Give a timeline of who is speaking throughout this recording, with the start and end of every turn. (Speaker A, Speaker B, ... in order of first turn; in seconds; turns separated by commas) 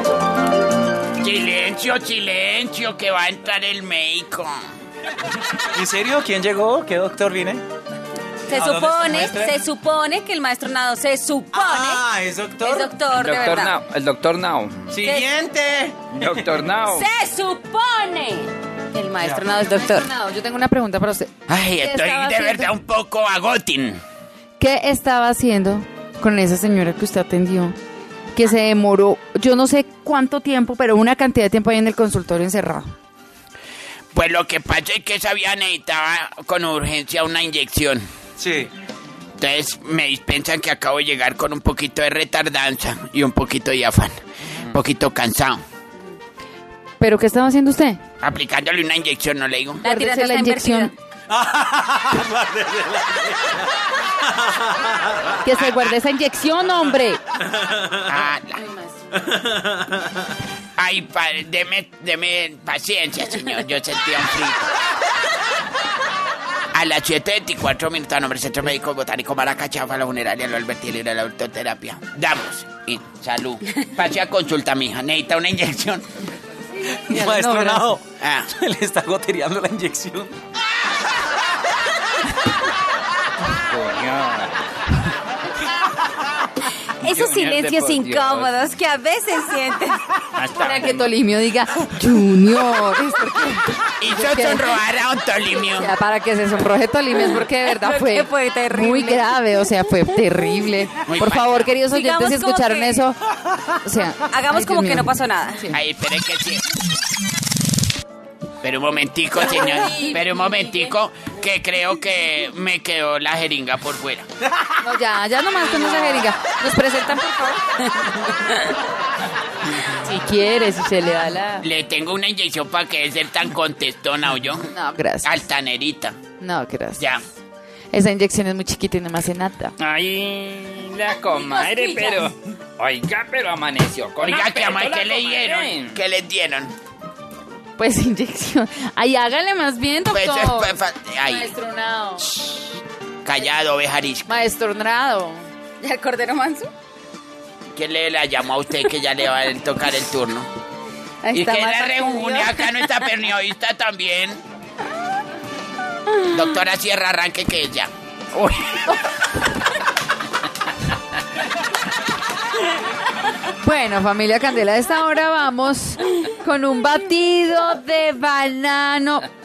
Speaker A: 1.2-4.5, Speaker B: 5.7-7.6, Speaker C: 8.5-12.0, Speaker B: 8.5-9.6, Speaker B: 11.5-12.8, Speaker C: 12.6-13.8, Speaker D: 13.1-14.9, Speaker B: 14.9-16.0, Speaker C: 15.0-15.3, Speaker D: 16.1-17.1, Speaker C: 16.8-20.1, Speaker E: 19.5-21.3, Speaker A: 21.5-24.0, Speaker C: 21.9-22.6, Speaker E: 24.6-27.7, Speaker E: 28.3-32.9, Speaker A: 34.1-38.0, Speaker B: 38.4-38.7, Speaker A: 39.4-45.6, Speaker E: 47.0-48.0, Speaker A: 48.2-49.8, Speaker C: 49.8-50.9, Speaker E: 49.8-50.9, Speaker B: 51.3-53.7, Speaker B: 54.3-55.3, Speaker E: 55.4-57.2, Speaker A: 55.5-55.9, Speaker B: 57.6-57.9, Speaker A: 58.0-58.6, Speaker E: 58.5-59.3, Speaker B: 59.5-60.0, Speaker A: 60.8-64.7, Speaker A: 66.7-76.1, Speaker B: 76.9-80.3, Speaker E: 77.1-77.9, Speaker A: 78.2-78.5, Speaker D: 83.6-84.5, Speaker C: 87.0-90.0, Speaker D: 87.0-88.7, Speaker D: 90.3-91.1, Speaker E: 90.6-94.8, Speaker A: 94.0-95.9, Speaker E: 95.7-103.2, Speaker C: 97.6-99.3, Speaker A: 101.0-101.7, Speaker C: 101.9-103.1, Speaker E: 103.8-105.8, Speaker C: 104.3-105.6, Speaker A: 105.7-106.6, Speaker A: 108.6-114.2, Speaker E: 109.5-110.9, Speaker E: 114.8-117.6, Speaker C: 115.7-116.3, Speaker E: 119.9-121.7, Speaker A: 121.6-124.7, Speaker E: 124.7-125.3, Speaker A: 125.2-126.2, Speaker E: 126.4-127.0, Speaker A: 127.0-127.2, Speaker E: 127.9-129.7, Speaker D: 129.8-136.0, Speaker E: 131.3-132.2, Speaker A: 134.2-136.7, Speaker E: 137.8-142.3, Speaker A: 140.1-141.5, Speaker A: 143.2-144.3, Speaker E: 144.3-145.4, Speaker C: 145.8-146.7, Speaker A: 147.7-150.5, Speaker C: 151.2-153.0, Speaker A: 151.3-154.4, Speaker A: 156.3-158.6, Speaker E: 163.6-169.3